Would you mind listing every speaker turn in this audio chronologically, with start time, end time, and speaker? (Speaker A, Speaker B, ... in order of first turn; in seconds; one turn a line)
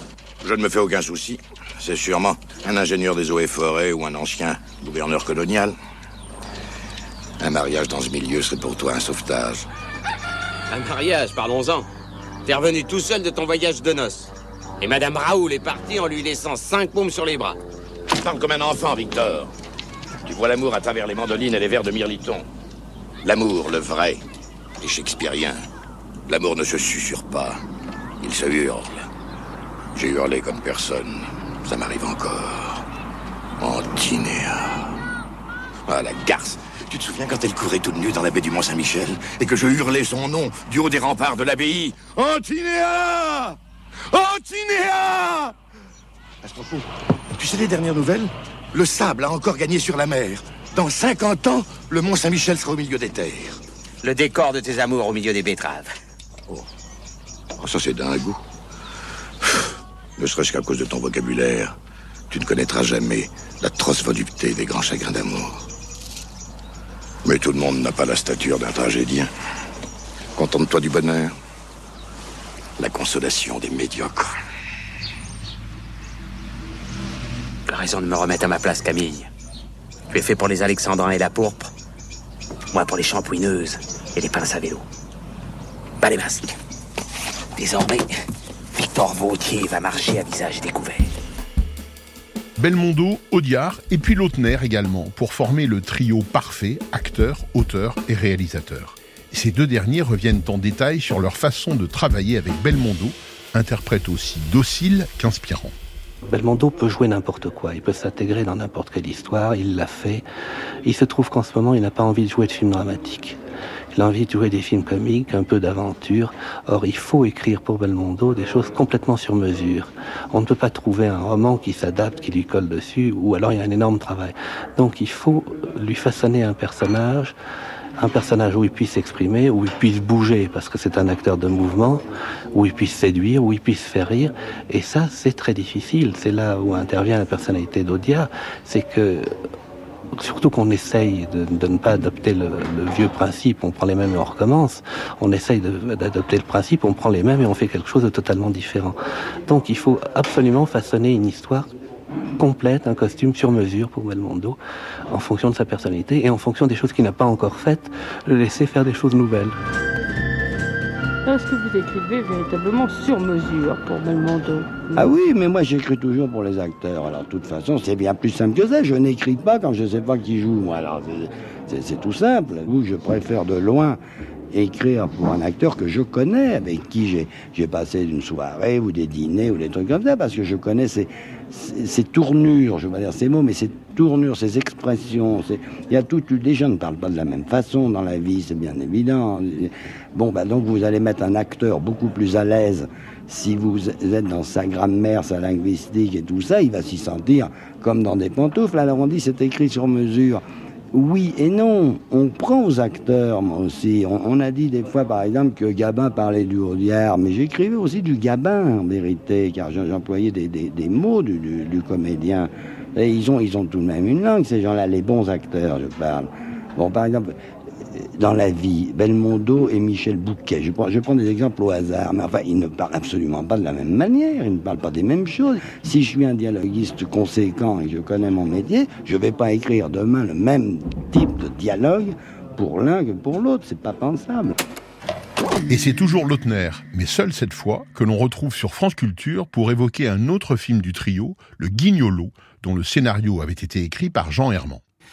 Speaker A: 0.4-5.7
Speaker A: 7.4-9.7
Speaker B: 10.7-11.9
Speaker B: 12.4-17.6
Speaker A: 18.2-19.5
Speaker A: 20.3-22.4
Speaker A: 23.2-24.2
Speaker A: 24.8-25.6
Speaker A: 26.3-27.6
Speaker A: 28.2-29.1
Speaker A: 29.9-32.8
Speaker A: 33.6-34.9
Speaker A: 35.9-43.6
Speaker A: 44.1-45.5
Speaker A: 46.5-46.8
Speaker A: 47.3-53.6
Speaker B: 54.0-55.9
Speaker A: 57.6-58.4
Speaker A: 60.2-61.7
Speaker A: 62.3-65.6
Speaker A: 67.2-69.3
Speaker A: 70.4-71.3
Speaker A: 72.8-74.3
Speaker B: 77.7-79.3
Speaker B: 80.1-81.7
Speaker B: 82.7-84.8
Speaker B: 86.0-86.5
Speaker B: 87.6-88.1
Speaker B: 88.8-91.1
Speaker C: 92.6-105.7
Speaker D: 106.3-110.2
Speaker D: 110.8-113.4
Speaker D: 113.9-127.3
Speaker D: 128.0-139.3
Speaker D: 140.1-151.7
Speaker D: 152.4-154.6
Speaker D: 155.1-159.6
Speaker E: 161.3-165.0
Speaker F: 164.9-174.0
Speaker F: 174.5-217.4
Speaker F: 218.0-234.5
Speaker C: 235.7-244.8